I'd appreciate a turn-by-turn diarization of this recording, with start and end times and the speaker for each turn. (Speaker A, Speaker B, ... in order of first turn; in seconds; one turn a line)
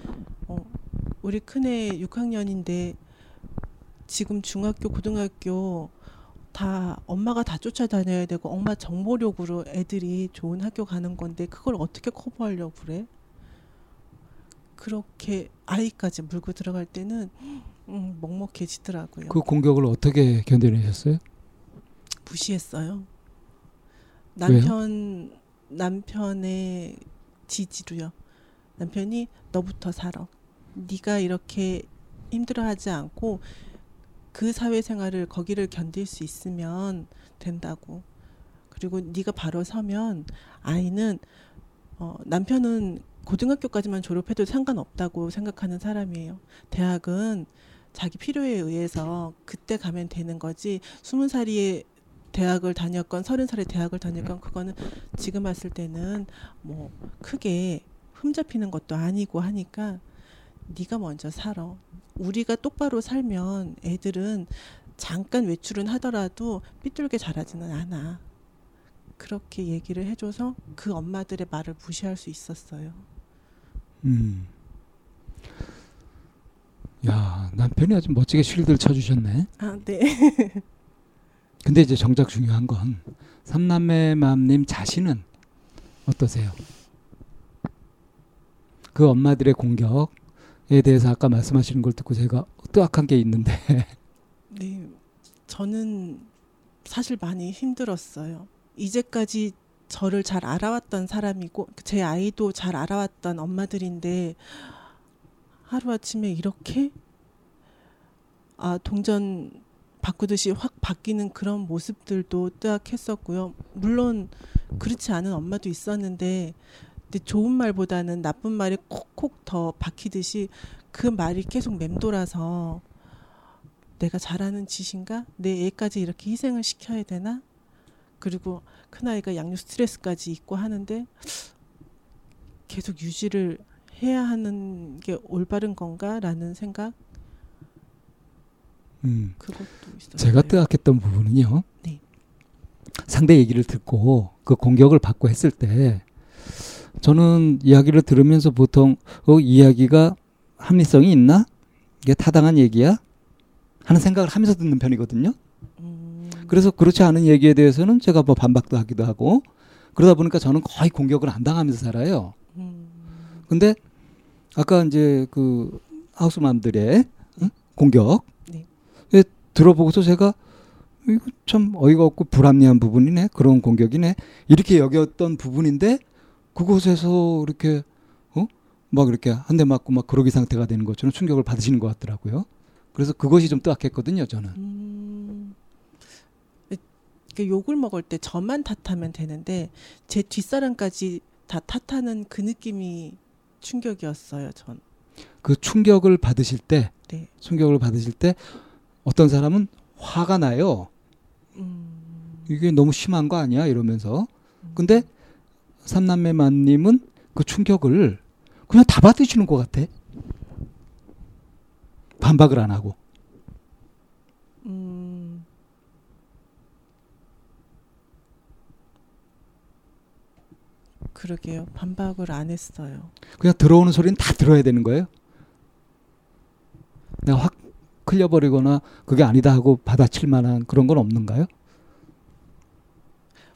Speaker A: 0.5-3.0
Speaker A: 4.1-5.9
Speaker A: 6.5-13.1
Speaker A: 14.8-19.4
Speaker B: 19.3-21.2
Speaker A: 22.2-23.1
Speaker A: 24.3-28.1
Speaker B: 24.5-24.7
Speaker A: 28.8-33.6
Speaker A: 34.3-38.0
Speaker A: 38.7-41.2
Speaker A: 42.0-60.0
Speaker A: 60.7-68.2
Speaker A: 69.2-73.1
Speaker B: 74.0-74.5
Speaker B: 77.0-79.5
Speaker A: 79.6-80.6
Speaker B: 81.6-85.2
Speaker B: 86.0-86.6
Speaker B: 88.9-90.1
Speaker B: 90.7-93.9
Speaker A: 94.5-96.3
Speaker A: 96.8-104.9
Speaker A: 105.7-106.9
Speaker A: 108.6-122.8
Speaker A: 124.0-127.4
Speaker A: 128.2-131.5
Speaker A: 132.7-136.9
Speaker B: 139.0-139.4
Speaker A: 139.4-140.6
Speaker B: 140.2-141.7
Speaker B: 143.0-146.0
Speaker B: 147.0-151.5
Speaker B: 152.0-153.0
Speaker B: 153.8-155.4
Speaker A: 155.8-156.6
Speaker B: 156.5-162.3
Speaker A: 162.5-163.4
Speaker B: 163.5-163.8
Speaker B: 164.5-168.3
Speaker B: 169.1-170.3
Speaker B: 171.0-176.0
Speaker B: 176.5-184.6
Speaker A: 183.4-183.6
Speaker A: 184.6-185.6
Speaker A: 186.7-194.8
Speaker B: 195.4-200.9
Speaker A: 201.5-202.5
Speaker B: 202.5-205.1
Speaker A: 204.6-205.1
Speaker B: 205.8-209.9
Speaker B: 212.2-212.9
Speaker A: 214.6-215.5
Speaker A: 221.1-223.1
Speaker B: 223.4-225.1
Speaker B: 227.2-231.5